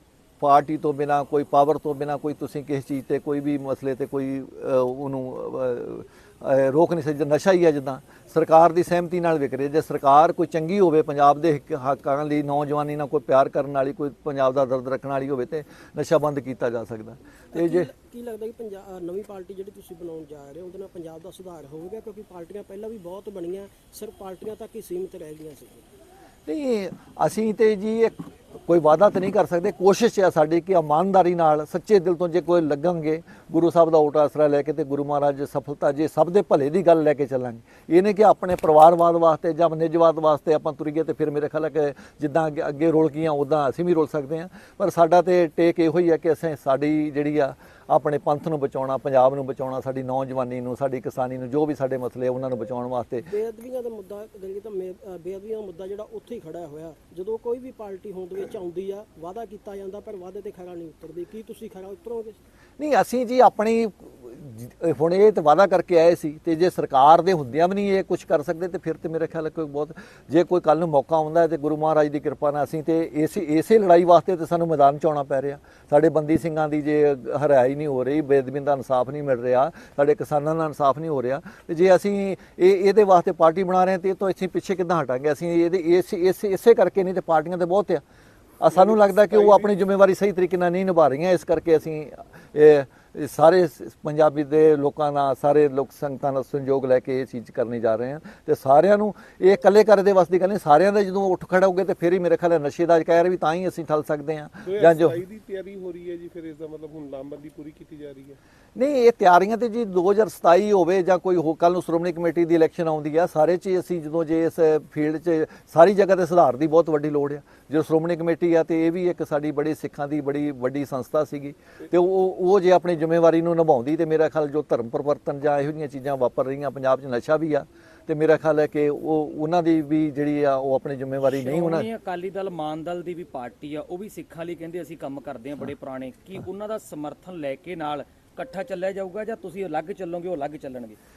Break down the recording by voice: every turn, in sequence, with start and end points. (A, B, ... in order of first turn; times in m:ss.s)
0:00.4-0:17.9 A
0:17.5-0:25.9 B
0:26.4-0:53.3 A
0:53.2-1:02.4 B
1:02.8-1:28.0 A
1:28.6-1:45.2 A
1:28.7-1:29.7 C
1:44.6-1:48.4 C
1:48.7-2:11.9 A
2:11.2-2:21.0 D